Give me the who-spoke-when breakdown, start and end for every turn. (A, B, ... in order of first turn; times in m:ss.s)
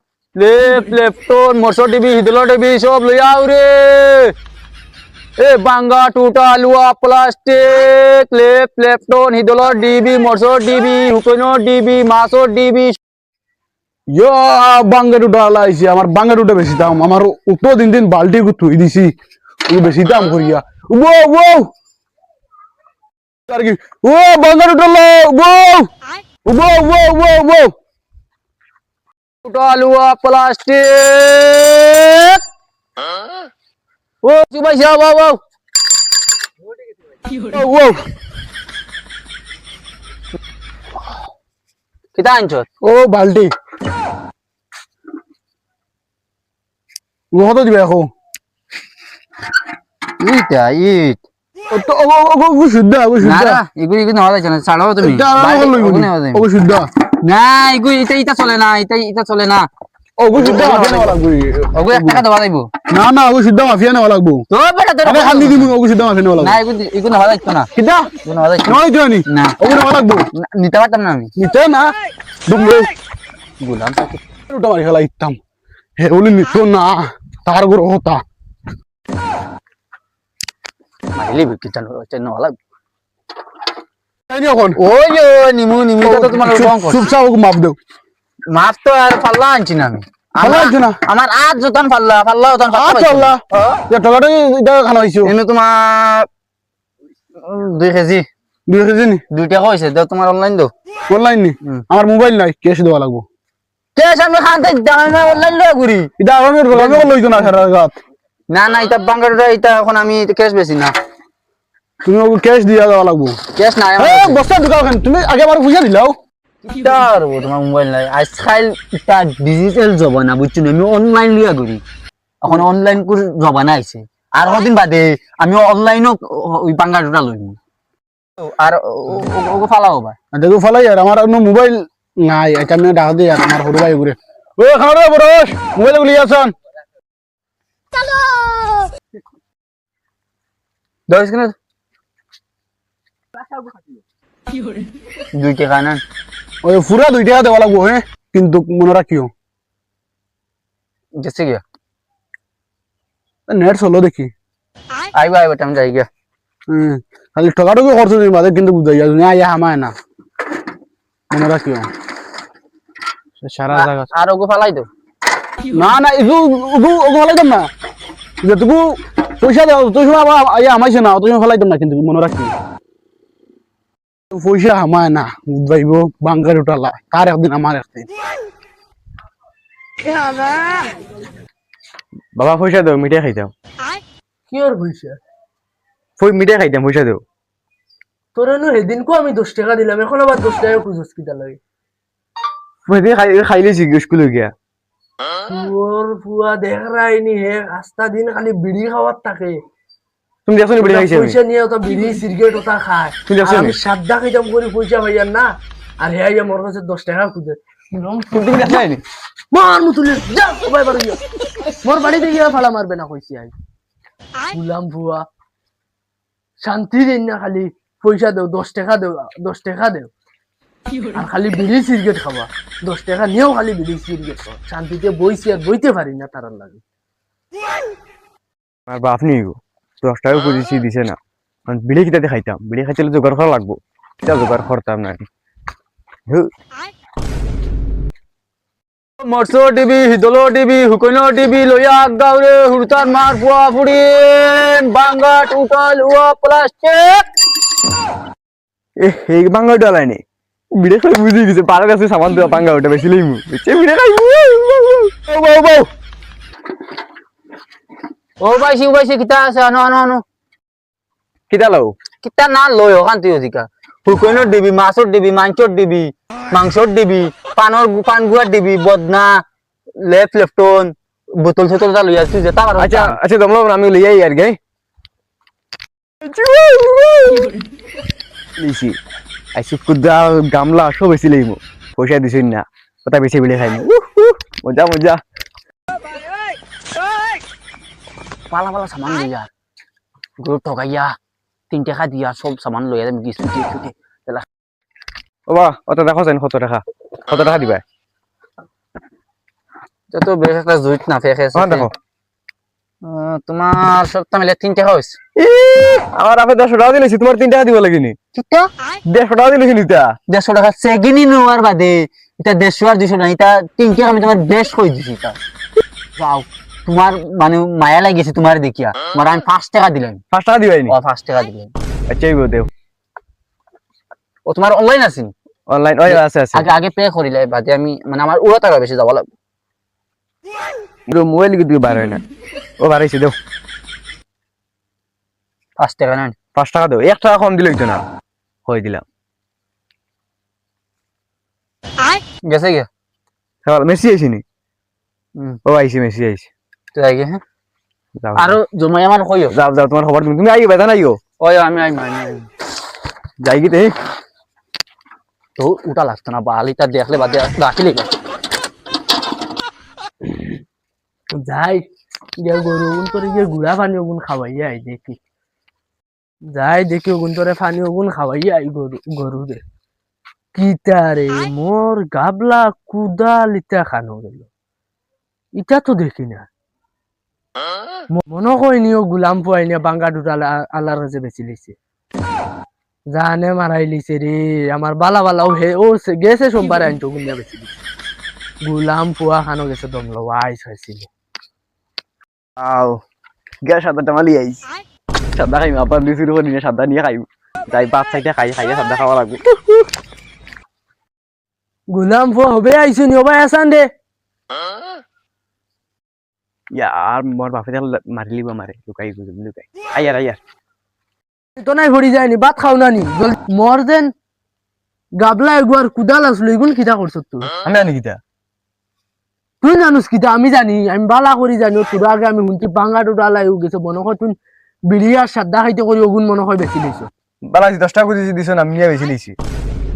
0:00.4-0:04.3 A
0:05.4-0:13.0 A
0:14.1-0:19.1 B
0:19.7-0:21.7 B
0:23.5-0:25.9 B
0:26.4-0:27.7 B
0:29.4-0:32.4 A
0:34.2-0:35.4 A
0:37.4-0:38.0 B
0:42.2-0:42.7 A
0:42.8-0:43.5 B
0:47.3-0:48.1 B
0:50.2-0:51.2 A
0:51.7-0:53.6 B
0:53.2-0:56.4 A
0:55.0-0:56.9 B
0:57.2-0:59.7 A
1:00.2-1:02.2 B
1:00.3-1:01.2 A
1:01.8-1:02.7 A
1:02.9-1:04.4 B
1:04.5-1:05.7 A
1:05.0-1:06.6 B
1:06.4-1:07.7 A
1:07.8-1:08.1 B
1:08.2-1:09.6 A
1:08.7-1:10.2 B
1:10.4-1:11.3 A
1:11.4-1:11.9 B
1:12.5-1:12.9 B
1:13.6-1:14.2 A
1:14.5-1:15.4 B
1:16.0-1:18.2 B
1:21.1-1:22.6 A
1:24.3-1:24.8 B
1:24.8-1:27.1 A
1:26.0-1:27.8 B
1:28.5-1:33.8 A
1:30.4-1:31.0 B
1:32.7-1:35.3 B
1:35.2-1:36.3 A
1:37.4-1:38.2 A
1:38.7-1:39.2 B
1:39.3-1:40.7 A
1:41.1-1:43.2 B
1:43.9-1:46.1 A
1:46.2-1:47.9 B
1:46.7-1:47.5 A
1:48.5-1:50.9 A
1:52.0-1:53.4 B
1:53.6-1:54.4 A
1:54.0-1:56.1 B
1:56.6-2:01.8 A
2:02.4-2:07.6 A
2:08.4-2:10.2 A
2:10.3-2:16.5 B
2:18.0-2:18.8 A
2:21.1-2:21.5 A
2:25.3-2:26.0 A
2:26.6-2:29.3 B
2:31.2-2:31.6 A
2:33.5-2:34.3 B
2:35.1-2:36.1 A
2:36.7-2:39.9 B
2:41.3-2:41.9 B
2:43.4-2:44.1 C
2:43.7-2:44.9 A
2:45.7-2:47.7 B
2:48.4-2:52.5 B
2:54.3-2:58.1 B
3:02.3-3:03.5 C
3:04.5-3:05.2 D
3:06.2-3:07.2 C
3:08.3-3:11.6 D
3:12.9-3:14.5 C
3:15.5-3:19.6 D
3:20.5-3:21.4 C
3:20.8-3:28.8 D
3:23.3-3:23.8 C
3:28.3-3:29.0 C
3:29.5-3:31.2 D
3:31.8-3:33.5 D
3:34.5-3:35.2 D
3:36.6-3:40.1 D
3:41.1-3:46.8 D
3:48.9-3:51.2 C
3:51.7-3:55.3 C
3:59.2-4:07.2 A
4:09.0-4:10.2 C
4:10.7-4:15.8 C
4:18.4-4:20.2 A
4:21.5-4:21.9 C
4:22.2-4:29.4 A
4:30.0-4:33.2 A
4:32.8-4:34.6 C
4:36.2-4:37.6 C
4:38.6-4:39.0 C
4:39.6-4:45.2 C
4:48.5-4:49.5 A
4:50.4-4:51.1 A
4:51.7-4:54.4 A
4:55.5-4:57.8 C
5:00.1-5:01.9 A
5:01.6-5:01.9 C
5:03.0-5:05.2 A
5:05.4-5:08.2 C
5:08.4-5:08.7 A
5:09.1-5:10.2 C
5:10.3-5:15.4 A
5:16.2-5:20.2 A
5:20.3-5:20.9 C
5:20.9-5:21.7 A
5:22.1-5:22.7 C
5:24.4-5:25.3 A
5:25.7-5:26.7 C
5:26.1-5:29.3 A
5:31.1-5:32.2 C
5:32.8-5:33.4 C
5:35.8-5:36.4 A
5:36.6-5:38.0 C
5:38.7-5:39.0 C
5:42.4-5:42.9 A
5:43.6-5:44.4 C
5:45.6-5:46.5 C
5:46.9-5:47.4 A
5:48.2-5:48.6 C
5:48.4-5:49.5 A
5:49.5-5:51.2 C
5:51.4-5:52.5 A
5:53.4-5:54.0 C
5:55.6-5:58.1 A
6:01.3-6:01.8 D
6:02.4-6:05.2 D
6:06.5-6:09.6 D
6:10.6-6:14.5 D
6:15.6-6:16.5 D
6:18.1-6:21.8 D
6:23.1-6:27.8 D
6:28.6-6:31.1 D
6:32.6-6:33.0 C
6:33.6-6:34.6 C
6:35.4-6:39.8 C
6:41.9-6:43.9 D
6:46.7-6:50.4 C
6:51.6-6:54.1 D
6:55.2-6:57.5 D
6:57.6-6:58.2 C
6:59.6-7:04.4 D
7:04.9-7:07.1 D
7:07.5-7:09.4 C